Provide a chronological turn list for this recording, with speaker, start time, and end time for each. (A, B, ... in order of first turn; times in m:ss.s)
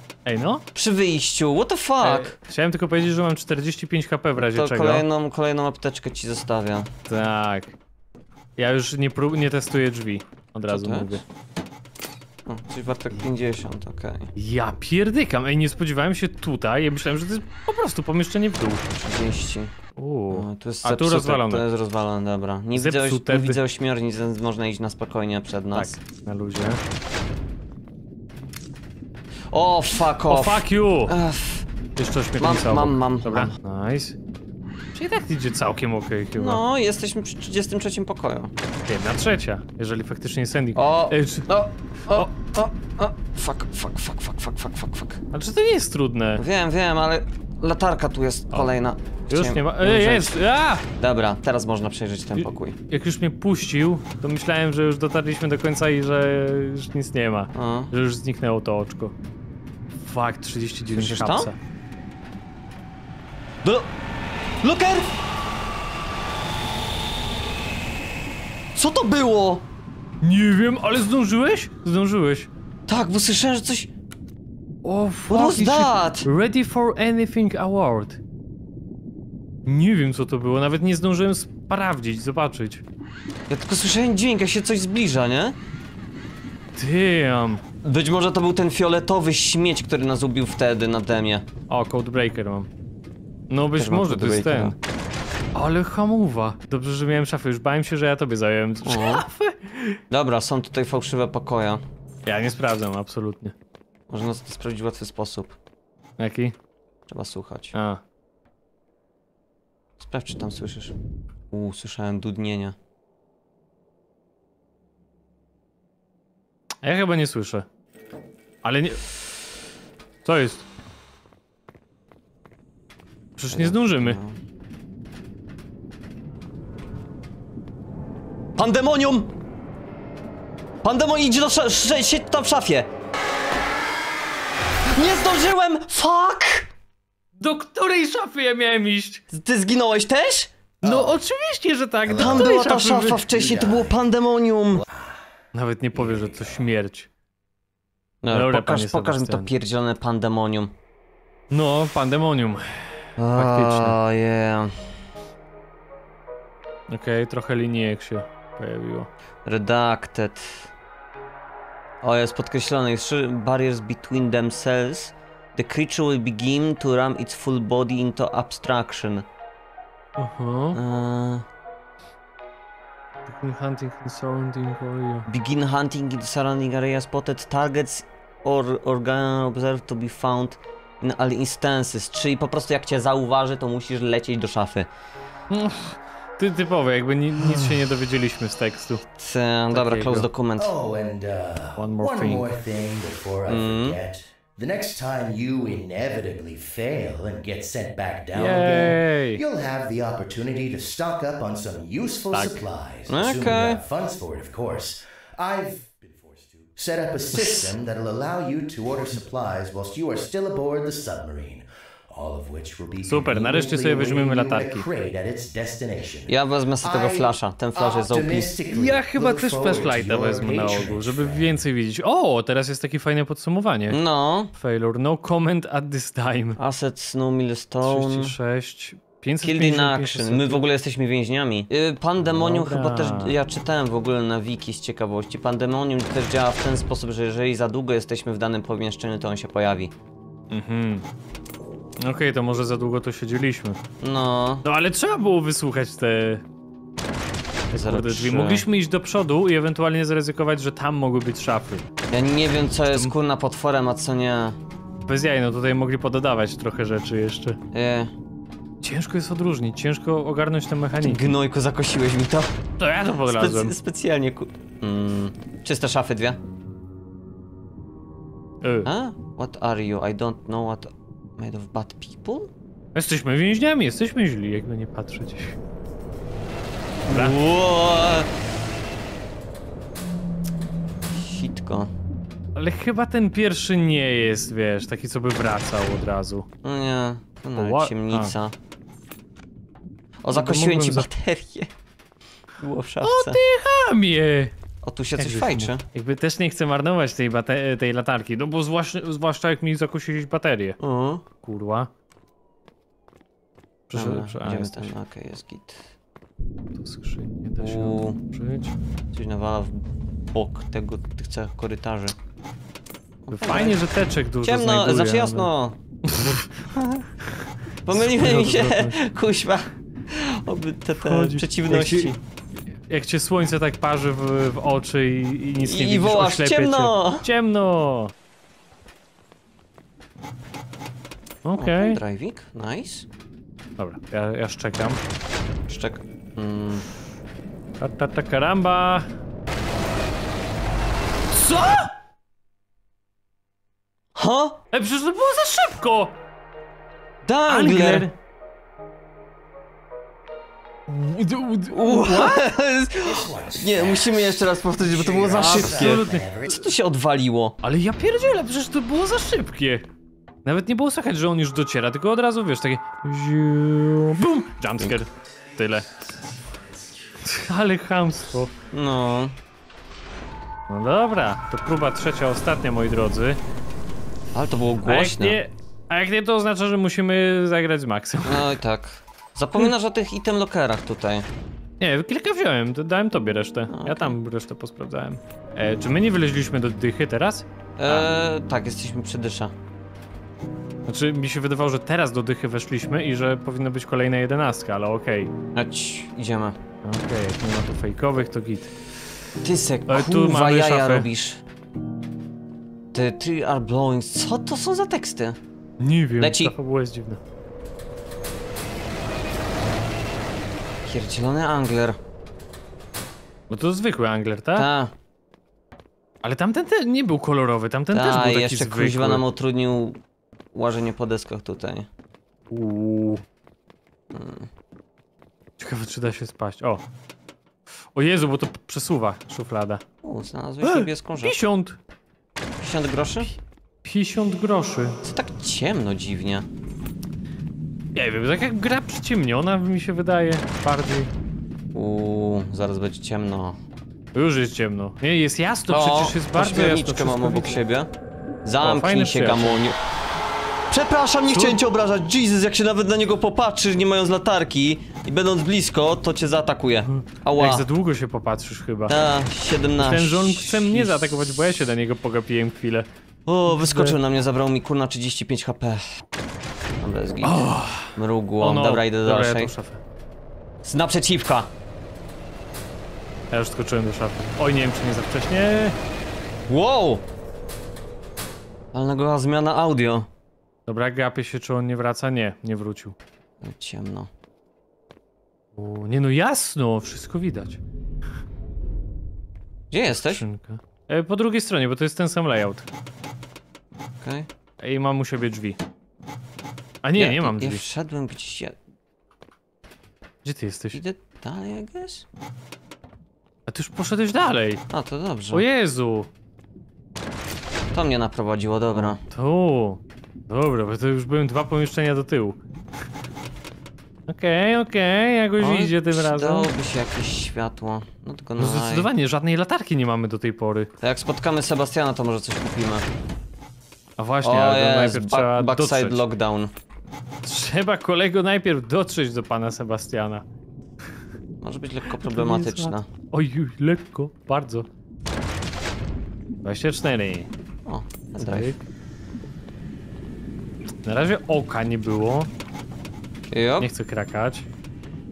0:00.3-0:00.6 A
0:00.7-0:02.4 B
0:02.0-0:05.0 A
0:04.4-0:06.9 B
0:07.1-0:07.8 A
0:08.6-0:11.2 A
0:10.7-0:11.2 B
0:12.5-0:14.3 B
0:14.4-0:18.8 A
0:19.0-0:19.7 B
0:20.0-0:21.7 A
0:20.3-0:26.0 B
0:22.8-0:23.6 A
0:25.8-0:26.8 A
0:29.5-0:31.7 B
0:30.3-0:31.2 A
0:32.0-0:34.2 A
0:32.4-0:33.6 B
0:35.0-0:36.6 A
0:36.4-0:38.5 B
0:38.8-0:41.5 A
0:40.8-0:45.2 B
0:45.3-0:46.4 A
0:46.4-0:50.3 B
0:49.3-0:50.8 A
0:51.0-0:52.8 B
0:52.4-0:59.2 A
0:57.5-0:57.9 B
1:00.0-1:01.6 A
1:00.9-1:01.5 B
1:04.6-1:05.1 B
1:08.8-1:09.6 B
1:10.2-1:12.5 A
1:12.9-1:13.9 B
1:14.8-1:18.2 A
1:15.3-1:16.3 B
1:19.6-1:22.8 A
1:23.5-1:25.6 B
1:26.8-1:27.6 A
1:27.8-1:31.5 B
1:31.7-1:32.7 A
1:33.5-1:34.8 A
1:33.8-1:34.8 B
1:35.6-1:40.0 A
1:38.8-1:39.2 B
1:40.1-1:41.8 B
1:42.3-1:43.5 A
1:44.1-1:45.6 B
1:46.2-1:46.5 A
1:47.1-1:47.8 B
1:47.7-1:48.0 A
1:50.0-1:50.9 B
1:51.5-1:52.8 B
1:56.8-1:57.7 A
1:58.6-1:59.1 A
2:00.2-2:00.6 A
2:03.4-2:04.2 A
2:03.5-2:04.4 B
2:08.6-2:09.3 B
2:10.8-2:12.9 B
2:14.9-2:16.7 B
2:17.4-2:19.2 A
2:19.3-2:20.5 B
2:20.8-2:23.2 A
2:20.8-2:21.1 C
2:22.1-2:22.6 C
2:22.1-2:24.8 B
2:23.2-2:24.0 C
2:24.8-2:25.2 C
2:25.5-2:27.1 A
2:25.9-2:26.6 C
2:28.2-2:30.7 B
2:28.3-2:29.5 A
2:31.5-2:34.0 A
2:33.2-2:34.8 B
2:36.9-2:39.1 A
2:39.4-2:40.7 B
2:42.0-2:49.2 B
2:50.2-2:50.8 A
2:50.7-2:51.4 B
2:53.3-2:55.3 A
2:55.3-3:04.9 B
3:05.5-3:09.0 A
3:09.2-3:10.7 B
3:09.7-3:10.3 A
3:10.6-3:41.5 C
3:11.8-3:12.5 A
3:13.5-3:14.0 B
3:18.3-3:19.4 A
3:23.1-3:23.8 B
3:27.3-3:27.7 B
3:33.1-3:34.9 A
3:36.3-3:38.5 B
3:38.7-3:44.0 A
3:43.9-3:44.5 B
3:44.5-3:46.6 A
3:46.6-3:48.4 B
3:47.8-3:50.6 A
3:49.4-3:59.9 B
3:52.4-3:53.4 A
4:00.5-4:01.0 A
4:02.0-4:03.8 A
4:04.0-4:04.7 B
4:04.6-4:06.4 A
4:07.7-4:11.8 A
4:07.8-4:08.6 B
4:12.1-4:14.6 B
4:12.9-4:13.1 A
4:15.1-4:17.6 A
4:17.7-4:18.1 B
4:18.8-4:21.3 A
4:21.0-4:22.5 B
4:22.8-4:23.8 A
4:23.3-4:26.4 B
4:28.6-4:28.9 A
4:28.8-4:32.5 B
4:33.0-4:35.6 A
4:37.1-4:38.3 B
4:37.1-4:37.4 A
4:41.1-4:41.9 B
4:42.6-4:46.5 A
4:46.6-4:48.5 B
4:47.6-4:48.3 A
4:50.2-4:51.7 B
4:50.3-4:51.1 A
4:52.6-4:53.4 B
4:53.0-4:54.5 A
4:54.8-4:55.8 B
4:55.2-5:00.8 A
5:00.8-5:01.2 B
5:01.4-5:01.9 A
5:03.9-5:04.9 A
5:03.9-5:05.9 B
5:06.8-5:08.8 A
5:07.6-5:08.2 B
5:09.1-5:12.2 B
5:13.2-5:13.8 B
5:13.3-5:15.5 A
5:14.4-5:15.8 B
5:16.0-5:16.6 A
5:16.7-5:17.1 B
5:17.9-5:22.2 B
5:17.9-5:19.0 A
5:21.0-5:22.1 A
5:22.9-5:28.1 A
5:25.6-5:27.3 B
5:31.4-5:32.0 A
5:31.6-5:33.1 B
5:33.8-5:35.0 A
5:35.7-5:36.9 B
5:37.8-5:39.1 A
5:41.3-5:41.9 A
5:44.2-5:44.6 B
5:44.7-5:46.2 A
5:47.2-5:48.1 B
5:47.5-5:48.1 A
5:50.9-5:52.5 A
5:51.7-5:57.6 B
5:53.0-5:56.6 C
5:55.4-5:56.3 A
5:57.6-5:59.9 A
6:00.4-6:05.9 A
6:06.3-6:06.7 C
6:07.3-6:08.5 A
6:08.7-6:09.4 B
6:10.7-6:13.4 A
6:14.3-6:15.4 B
6:14.8-6:18.5 A
6:18.2-6:21.3 B
6:21.8-6:28.1 A
6:23.7-6:24.2 B
6:27.8-6:29.5 B
6:30.9-6:35.3 A
6:35.5-6:36.6 B
6:36.8-6:38.7 A
6:39.4-6:41.4 B
6:39.9-6:41.1 A
6:42.9-6:45.4 B
6:45.8-6:47.2 A
6:46.2-6:46.5 B
6:50.9-6:52.0 B
6:53.5-6:54.7 A
6:54.6-6:54.9 B
6:56.2-6:59.2 A
6:57.9-7:00.0 B
7:00.5-7:01.9 B
7:02.5-7:03.2 A
7:04.1-7:04.5 B
7:05.6-7:06.8 A
7:07.9-7:09.8 A
7:10.0-7:11.4 B
7:10.6-7:11.8 A
7:12.6-7:13.3 B
7:13.8-7:15.0 A
7:15.0-7:16.5 B
7:18.0-7:21.1 A
7:21.7-7:23.6 B
7:24.1-7:27.6 A
7:25.7-7:27.9 B
7:28.4-7:29.8 B
7:28.6-7:29.6 A
7:30.7-7:37.7 B
7:31.3-7:31.6 A
7:36.9-7:39.0 A
7:38.9-7:41.0 B
7:39.8-7:42.9 A
7:43.3-7:45.9 B
7:43.5-7:44.0 A
7:46.8-7:49.5 B
7:47.2-7:49.8 A
7:50.6-7:51.5 B
7:53.3-7:55.8 A
7:56.5-7:57.0 B
7:58.7-8:00.1 B
8:00.7-8:02.9 A
8:03.4-8:04.1 B
8:05.6-8:07.6 A
8:09.7-8:10.2 B
8:09.9-8:12.7 A
8:14.0-8:14.3 B
8:14.6-8:15.6 A
8:16.8-8:17.6 A
8:17.0-8:18.6 B
8:20.2-8:20.8 A
8:20.7-8:22.0 B
8:23.5-8:24.6 A
8:24.7-8:25.4 B
8:25.3-8:26.1 A
8:27.7-8:29.0 B
8:28.7-8:32.4 A
8:34.1-8:36.5 A
8:35.4-8:38.9 B
8:38.4-8:40.7 A
8:40.8-8:42.9 B
8:44.0-8:46.0 A
8:44.2-8:46.5 B
8:47.2-8:50.2 A
8:51.4-8:52.9 B
8:51.9-8:54.7 A
8:56.4-8:57.3 A
8:57.7-8:58.6 B
8:58.2-8:58.6 A
9:00.8-9:02.3 A
9:03.3-9:03.7 B
9:03.6-9:04.5 A